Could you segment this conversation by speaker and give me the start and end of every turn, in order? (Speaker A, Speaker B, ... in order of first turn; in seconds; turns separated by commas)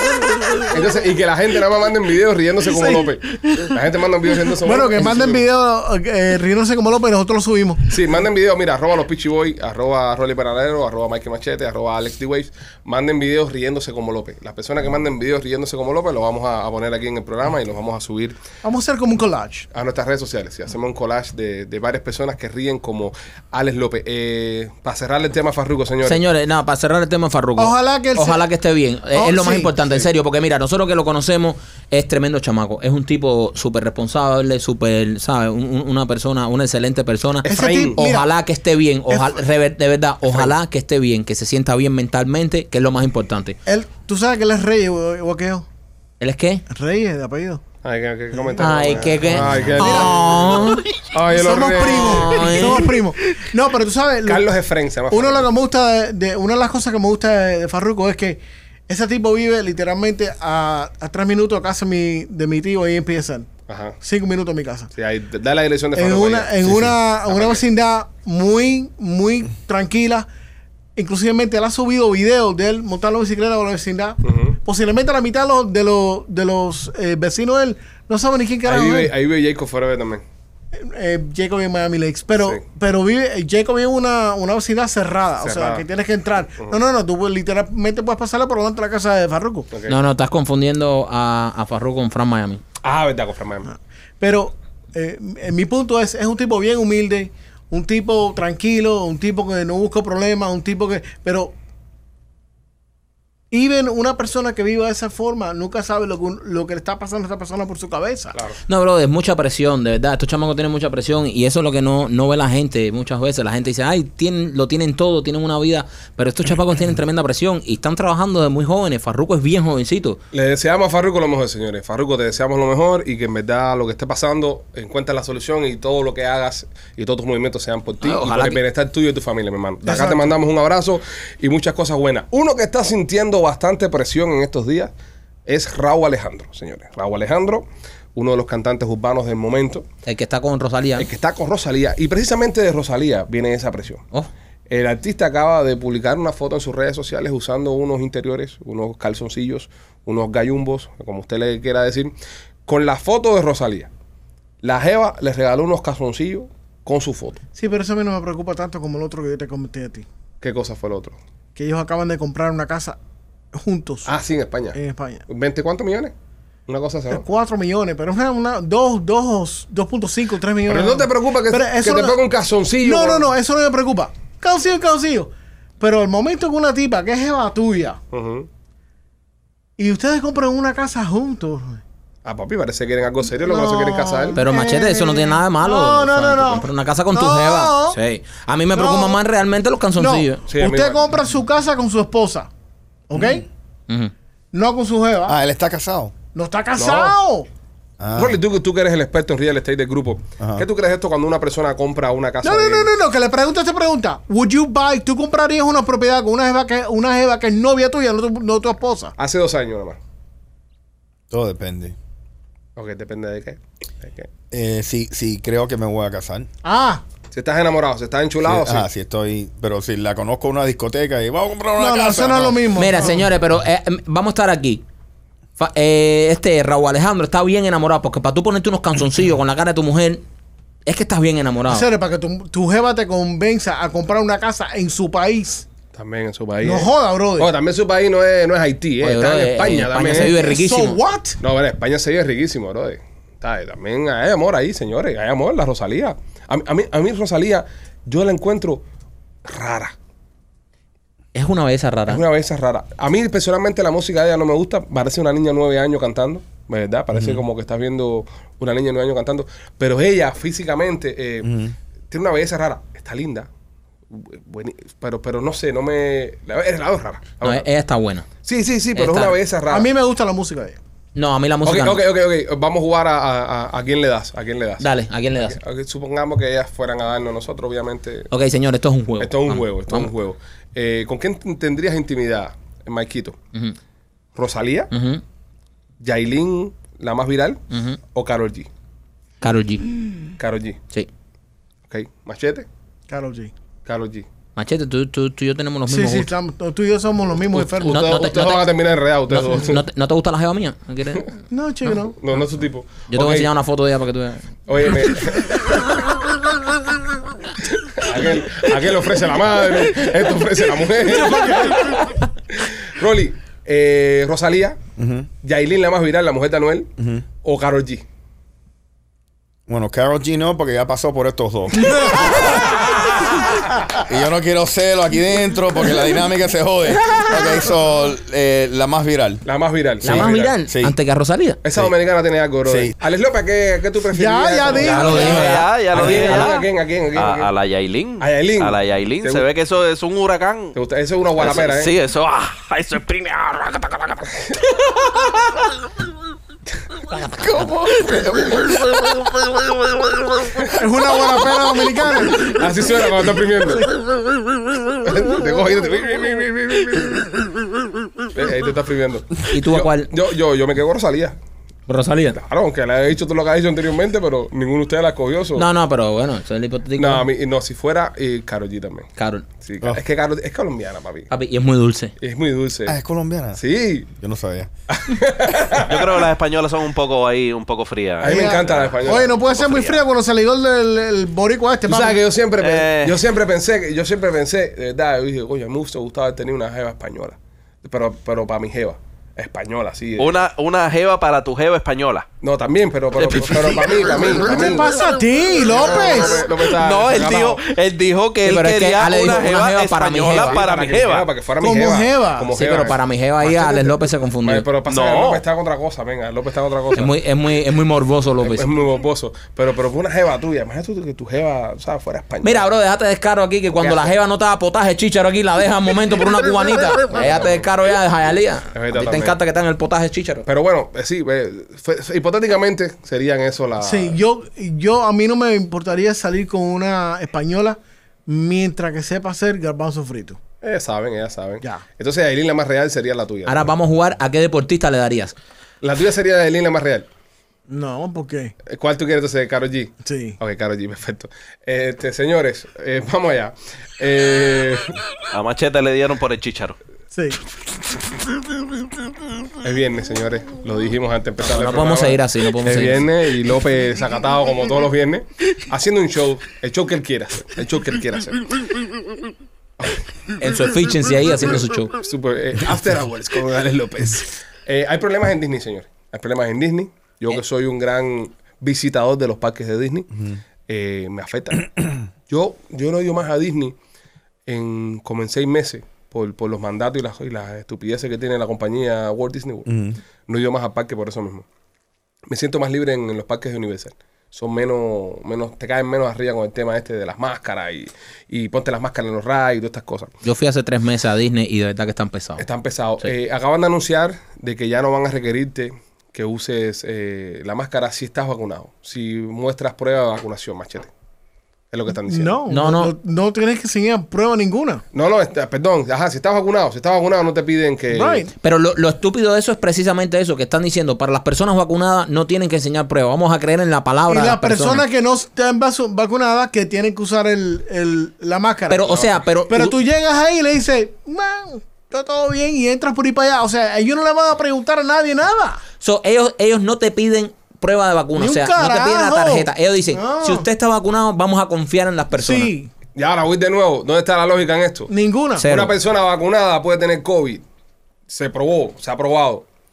Speaker A: 0.7-5.5, Speaker B: 2.7-3.1, Speaker B: 4.5-7.8, Speaker A: 7.9-18.4, Speaker B: 18.6-19.7, Speaker A: 19.7-26.2, Speaker C: 26.0-43.6, Speaker B: 27.6-28.4, Speaker B: 29.1-29.7, Speaker A: 37.4-38.0, Speaker B: 37.5-38.3, Speaker B: 39.1-39.4, Speaker A: 40.3-40.5, Speaker B: 43.7-45.7, Speaker C: 46.2-46.6, Speaker B: 46.7-47.6, Speaker A: 47.8-52.7, Speaker C: 48.6-50.9, Speaker B: 48.8-49.1, Speaker B: 49.8-50.7, Speaker B: 51.3-54.5, Speaker C: 51.8-53.0, Speaker A: 54.3-55.5, Speaker B: 55.1-63.5, Speaker A: 63.7-64.0, Speaker B: 64.0-64.9, Speaker A: 64.9-67.6, Speaker B: 66.0-70.3, Speaker B: 71.0-79.1, Speaker A: 74.2-74.6, Speaker A: 78.7-80.2, Speaker B: 80.7-89.7, Speaker A: 85.4-85.8, Speaker A: 89.7-90.0, Speaker C: 89.9-92.6, Speaker A: 92.8-93.7, Speaker B: 94.2-101.5, Speaker B: 103.5-108.4, Speaker C: 108.7-120.2, Speaker A: 120.3-134.9, Speaker C: 128.0-128.6, Speaker B: 129.8-130.3, Speaker A: 135.5-139.8, Speaker C: 140.1-141.1, Speaker A: 141.0-144.0, Speaker A: 144.7-152.1, Speaker A: 152.7-153.9, Speaker A: 154.6-157.4, Speaker B: 157.6-160.1, Speaker A: 160.4-161.2, Speaker B: 161.6-163.0, Speaker B: 163.5-164.1, Speaker A: 164.1-166.1, Speaker B: 164.8-165.2, Speaker A: 166.7-167.2, Speaker B: 167.1-172.2, Speaker A: 170.7-173.3, Speaker B: 172.8-178.0, Speaker A: 178.1-178.5, Speaker B: 179.8-181.8, Speaker A: 182.2-184.4, Speaker B: 183.4-188.0, Speaker C: 184.4-190.4, Speaker B: 188.7-189.2, Speaker B: 190.0-192.5, Speaker A: 190.5-191.1, Speaker B: 193.1-193.5, Speaker D: 193.2-193.4, Speaker B: 194.5-195.4, Speaker D: 195.2-196.1, Speaker B: 196.3-197.5, Speaker A: 196.8-197.2, Speaker D: 198.0-198.4, Speaker A: 198.2-202.9, Speaker D: 200.4-200.7, Speaker B: 202.4-209.1, Speaker A: 209.2-210.0, Speaker D: 211.3-211.9, Speaker A: 212.8-214.3, Speaker D: 214.5-216.5, Speaker B: 216.6-217.0, Speaker A: 217.3-218.9, Speaker D: 218.4-222.7, Speaker B: 221.8-223.3, Speaker C: 222.8-224.8, Speaker C: 225.6-230.2, Speaker C: 230.9-231.9, Speaker B: 231.7-235.7, Speaker A: 235.9-240.3, Speaker B: 236.6-237.5, Speaker C: 239.0-241.0, Speaker B: 240.1-241.4, Speaker A: 241.4-248.8, Speaker A: 249.5-249.9, Speaker C: 251.3-252.2, Speaker A: 252.1-263.5, Speaker D: 257.1-257.4, Speaker D: 261.4-261.7, Speaker A: 264.1-267.7, Speaker C: 267.4-268.3, Speaker A: 268.4-269.9, Speaker C: 268.9-269.4, Speaker B: 269.7-270.8, Speaker C: 271.1-272.0, Speaker A: 271.6-278.3, Speaker C: 274.8-275.6, Speaker C: 278.3-280.1, Speaker A: 279.2-283.4, Speaker A: 284.4-284.9, Speaker C: 284.9-285.2, Speaker A: 286.0-287.6, Speaker C: 287.7-288.0, Speaker A: 288.1-288.7, Speaker C: 289.4-289.9, Speaker A: 290.4-290.8, Speaker A: 291.9-292.7, Speaker B: 293.1-293.5, Speaker A: 293.9-294.3, Speaker C: 294.6-296.3, Speaker B: 295.9-298.1, Speaker A: 297.5-299.8, Speaker C: 297.8-298.8, Speaker C: 299.3-301.3, Speaker B: 301.5-302.2, Speaker A: 302.1-303.5, Speaker C: 303.1-304.5, Speaker A: 304.7-306.0, Speaker A: 307.6-311.9, Speaker B: 311.0-312.0, Speaker A: 312.5-314.8, Speaker D: 315.0-315.3, Speaker A: 315.4-316.9, Speaker D: 317.0-317.2, Speaker A: 317.4-318.1, Speaker D: 319.7-323.0, Speaker D: 323.9-329.4, Speaker A: 329.4-330.5, Speaker D: 330.0-330.9, Speaker C: 330.0-331.6, Speaker A: 331.6-337.5, Speaker D: 332.7-332.9, Speaker B: 334.1-335.6, Speaker C: 334.7-336.5, Speaker E: 335.0-340.8, Speaker A: 338.2-339.5, Speaker A: 340.8-341.9, Speaker E: 341.4-344.3, Speaker E: 347.2-349.7, Speaker B: 350.7-352.6, Speaker A: 352.3-353.9, Speaker A: 355.0-357.3, Speaker A: 358.3-361.4, Speaker C: 359.5-360.1, Speaker C: 361.9-362.4, Speaker A: 362.3-365.7, Speaker C: 365.6-367.2, Speaker A: 367.0-369.1, Speaker C: 369.2-369.5, Speaker A: 369.6-371.3, Speaker C: 371.3-372.1, Speaker A: 372.2-373.0, Speaker D: 372.9-373.6, Speaker A: 373.6-374.1, Speaker D: 374.1-374.7, Speaker A: 374.9-376.3, Speaker E: 375.8-380.0, Speaker A: 378.2-379.3, Speaker B: 378.2-382.2, Speaker A: 381.9-390.4, Speaker E: 382.6-383.2, Speaker E: 390.2-392.3, Speaker A: 392.4-394.9, Speaker E: 393.2-394.3, Speaker B: 394.4-396.4, Speaker A: 395.6-397.6, Speaker E: 396.5-401.3, Speaker C: 398.4-400.6, Speaker A: 400.3-407.1, Speaker B: 401.6-402.5, Speaker C: 402.5-404.7, Speaker E: 404.9-405.4, Speaker C: 406.9-408.7, Speaker A: 408.4-412.7, Speaker C: 412.4-420.4, Speaker A: 413.8-414.1, Speaker A: 417.1-417.7, Speaker A: 418.7-419.4, Speaker A: 420.4-424.2, Speaker B: 423.8-430.4, Speaker A: 430.6-433.7, Speaker C: 433.5-435.3, Speaker A: 435.8-437.1, Speaker B: 437.7-438.5, Speaker A: 438.7-444.9, Speaker B: 440.1-440.4, Speaker E: 445.3-446.8, Speaker B: 447.1-447.4, Speaker A: 449.6-458.4, Speaker C: 451.4-453.1, Speaker C: 460.4-461.9, Speaker A: 462.0-470.1, Speaker A: 470.7-471.7, Speaker A: 472.3-473.8, Speaker A: 474.5-479.8, Speaker D: 479.7-480.0, Speaker A: 480.3-481.5, Speaker A: 482.3-490.1, Speaker C: 490.2-492.4, Speaker A: 492.4-500.9, Speaker A: 501.7-502.4, Speaker B: 502.1-504.8, Speaker C: 502.5-502.9, Speaker A: 504.9-508.2, Speaker B: 507.9-508.3, Speaker C: 508.4-514.9, Speaker B: 514.1-525.6, Speaker C: 518.7-519.8, Speaker C: 525.8-532.5, Speaker B: 528.2-530.5, Speaker B: 532.1-532.7, Speaker A: 533.0-534.9, Speaker B: 534.9-535.5, Speaker C: 535.4-535.7, Speaker A: 535.4-537.4, Speaker A: 538.1-539.5